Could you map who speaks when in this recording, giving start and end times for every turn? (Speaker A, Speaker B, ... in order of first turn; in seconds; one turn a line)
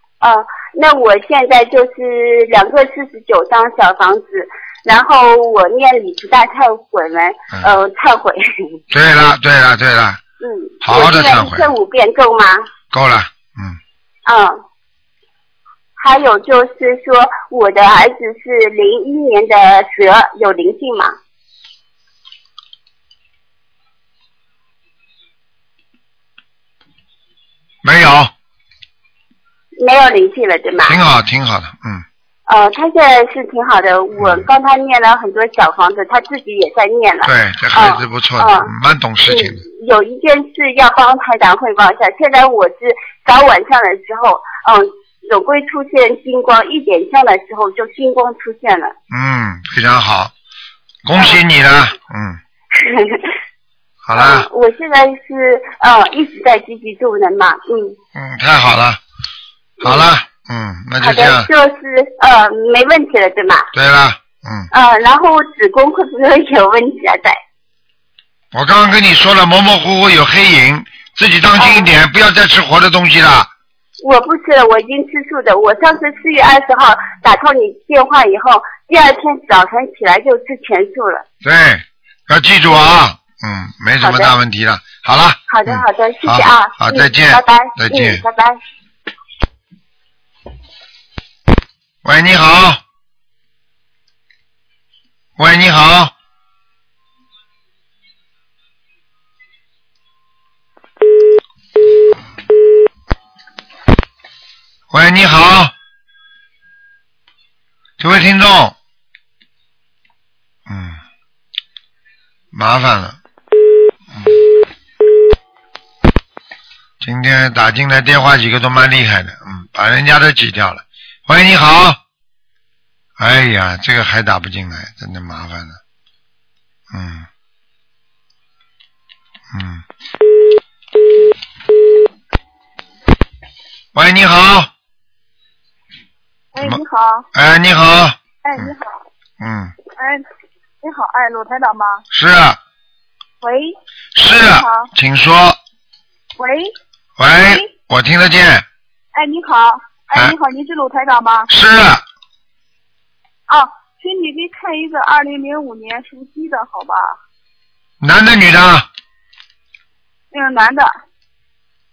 Speaker A: 0.2-8.4
Speaker B: 8.9-10.2
Speaker A: 10.4-12.7
Speaker B: 10.8-11.7
Speaker B: 12.9-13.8
Speaker A: 14.2-14.6
Speaker A: 16.0-21.1
Speaker B: 27.8-28.3
Speaker A: 29.8-31.0
Speaker B: 30.9-32.0
Speaker A: 32.5-38.7
Speaker B: 34.2-34.5
Speaker B: 37.2-39.6
Speaker A: 39.3-48.9
Speaker B: 49.1-50.3
Speaker B: 51.0-52.4
Speaker A: 51.1-51.4
Speaker A: 52.8-53.3
Speaker B: 54.0-54.5
Speaker A: 54.1-58.0
Speaker B: 58.1-59.0
Speaker A: 59.8-60.0
Speaker B: 59.8-61.5
Speaker A: 61.0-63.7
Speaker B: 63.7-64.7
Speaker A: 64.7-67.4
Speaker B: 68.5-73.5
Speaker A: 71.6-71.9
Speaker A: 74.0-81.2
Speaker B: 81.4-88.2
Speaker A: 84.0-84.3
Speaker A: 85.5-88.6
Speaker B: 92.0-92.8
Speaker B: 95.4-96.1
Speaker B: 104.9-105.7
Speaker B: 108.0-108.7
Speaker B: 110.7-111.0
Speaker B: 112.5-113.2
Speaker B: 117.0-122.0
Speaker B: 123.2-125.8
Speaker B: 126.9-127.3
Speaker B: 129.5-129.8
Speaker B: 133.9-134.7
Speaker C: 136.5-137.3
Speaker B: 137.3-138.7
Speaker C: 138.4-139.0
Speaker B: 139.4-139.7
Speaker C: 140.0-140.2
Speaker C: 140.8-142.0
Speaker B: 142.1-142.6
Speaker C: 143.4-143.7
Speaker B: 144.1-145.6
Speaker C: 144.3-144.9
Speaker C: 146.4-146.7
Speaker B: 147.2-148.6
Speaker C: 149.1-151.5
Speaker B: 151.5-152.0
Speaker C: 153.5-157.2
Speaker B: 158.0-158.8
Speaker C: 160.3-160.9